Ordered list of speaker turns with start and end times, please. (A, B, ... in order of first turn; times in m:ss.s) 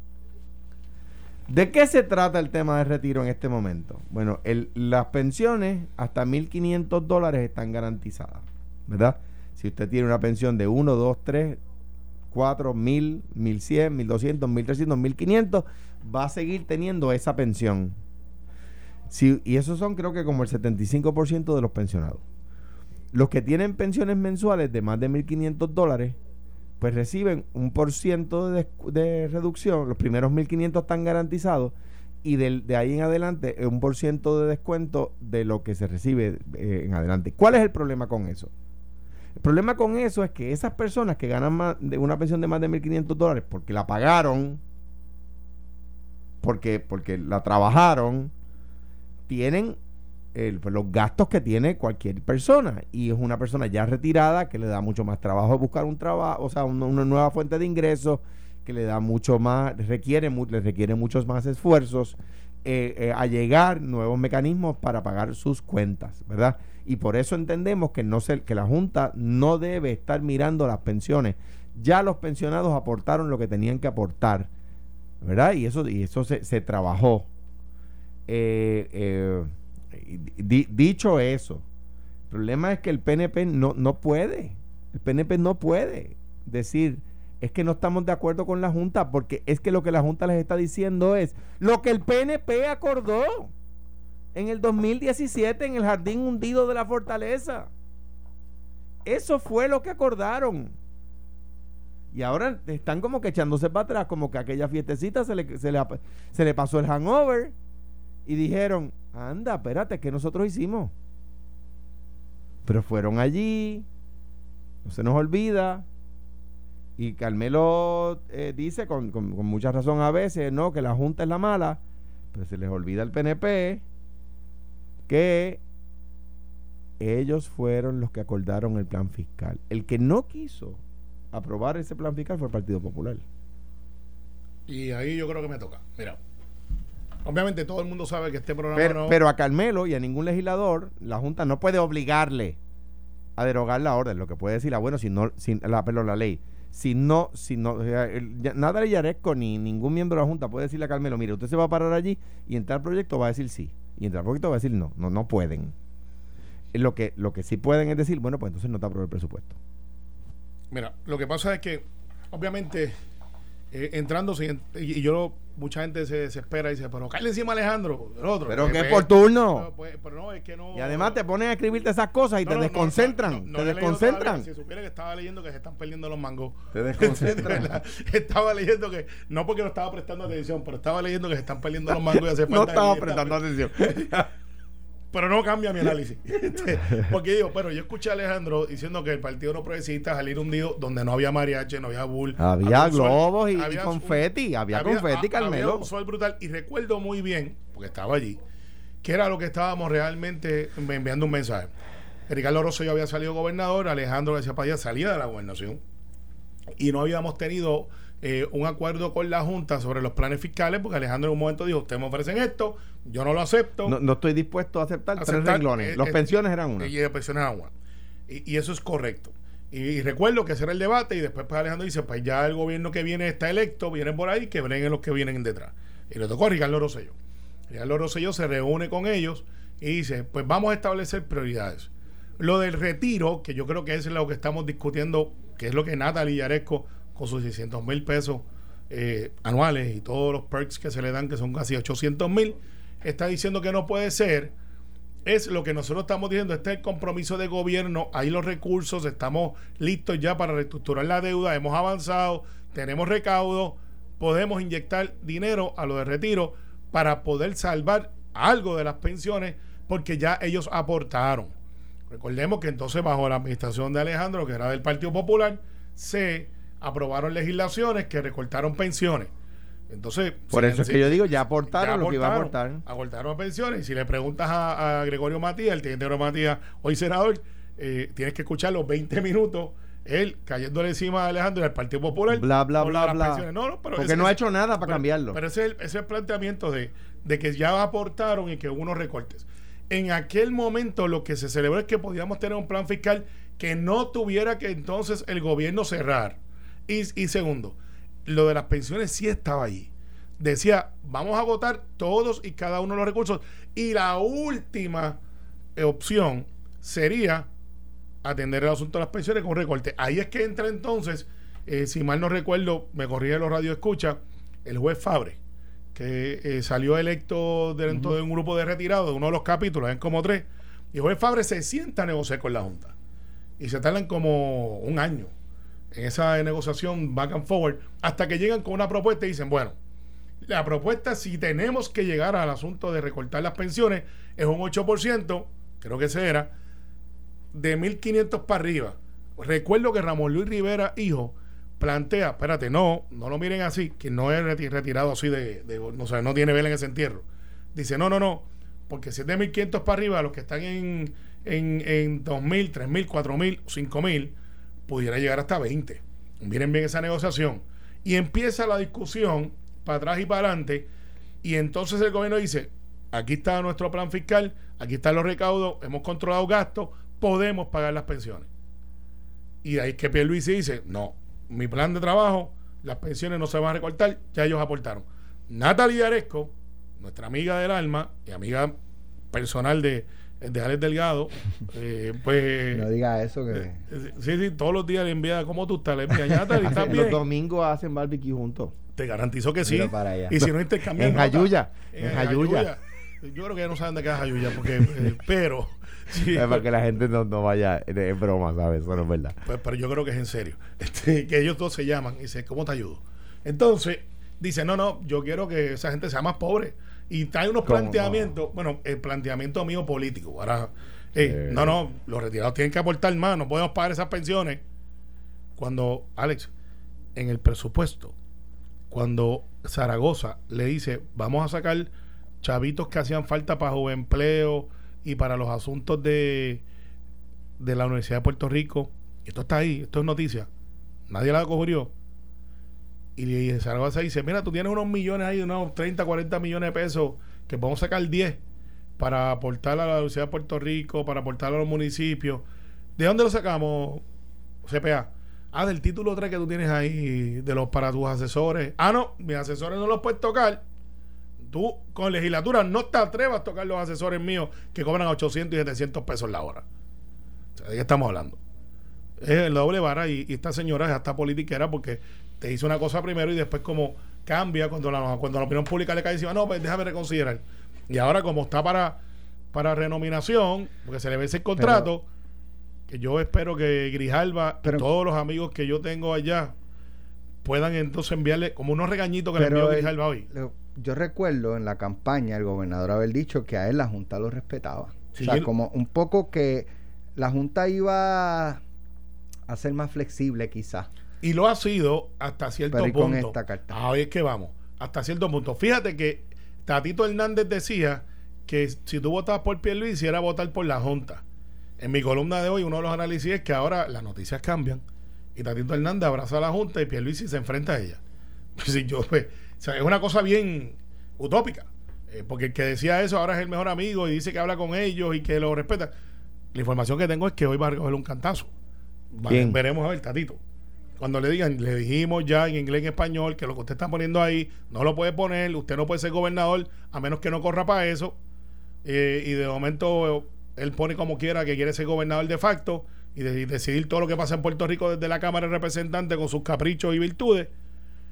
0:01.5-0:11.6 A
0:12.3-0:18.0 A
0:19.1-0:22.2 A
0:23.1-0:26.2 A
0:26.8-0:38.5 A
0:39.4-0:44.6 A
0:46.4-0:48.3 A
0:49.3-0:49.8 A
0:50.3-1:14.5 A
1:15.2-1:17.3 A
1:18.3-1:21.6 A
1:22.3-1:33.5 A
1:34.3-1:37.7 A
1:39.0-1:40.8 A
1:42.1-1:47.6 A
1:48.3-1:50.9 A
1:52.7-1:53.9 A
1:54.8-1:55.9 A
1:57.0-2:01.8 A
2:02.3-2:03.8 A
2:05.1-2:05.6 A
2:07.0-2:10.8 A
2:11.3-2:13.2 A
2:14.7-2:16.2 B
2:17.2-2:19.2 B
2:18.7-2:22.6 A
2:23.4-2:35.7 A
2:36.7-2:39.6 A
2:40.7-2:43.0 B
2:43.7-2:51.2 B
2:48.5-2:49.7 A
2:50.7-2:54.5 A
2:52.4-3:03.4 B
2:56.7-2:57.7 A
3:01.9-3:04.3 A
3:05.1-3:18.4 B
3:12.4-3:15.9 A
3:19.0-3:21.7 B
3:22.3-3:25.8 B
3:26.8-3:34.0 B
3:33.8-3:36.9 A
3:35.2-3:36.2 B
3:36.8-3:37.7 B
3:38.3-3:47.1 B
3:47.7-4:04.5 B
4:05.2-4:21.5 B
4:22.1-4:29.3 B
4:29.9-5:05.2 B
4:30.5-4:32.8 A
4:42.3-4:45.4 A
5:05.8-5:07.5 B
5:08.2-5:15.4 B
5:16.0-5:22.9 B
5:23.6-5:25.3 B
5:25.9-5:29.8 B
5:30.4-5:36.5 B
5:37.5-5:54.3 B
5:54.9-6:00.9 B
6:01.4-6:08.5 B
6:09.6-6:18.8 B
6:19.3-6:22.9 B
6:22.7-6:23.8 C
6:23.9-6:27.2 B
6:26.5-6:28.8 A
6:29.0-6:36.6 B
6:29.7-6:32.7 A
6:29.8-6:30.3 C
6:36.3-6:39.4 A
6:39.5-6:54.6 B
6:47.6-6:48.3 A
6:51.2-6:51.8 A
6:55.6-6:56.5 B
6:57.2-6:58.1 B
6:58.9-7:01.9 B
7:02.4-7:06.6 B
7:07.6-7:10.5 B
7:11.1-7:11.9 B
7:13.2-7:18.4 B
7:19.0-7:22.4 B
7:23.0-7:24.0 B
7:24.7-7:30.6 B
7:31.4-7:36.6 B
7:37.6-7:38.4 B
7:39.2-7:49.0 B
7:49.5-7:52.1 B
7:51.6-7:51.9 C
7:52.9-7:56.5 B
7:57.4-8:00.3 B
7:59.4-8:08.6 C
8:05.1-8:05.5 B
8:09.5-8:10.9 C
8:11.2-8:21.2 B
8:12.7-8:13.8 C
8:21.8-8:24.8 B
8:25.4-8:28.0 B
8:28.6-8:35.9 B
8:36.5-8:38.5 B
8:39.1-8:40.4 B
8:39.3-8:39.6 A
8:41.0-8:48.2 B
8:48.8-8:57.5 B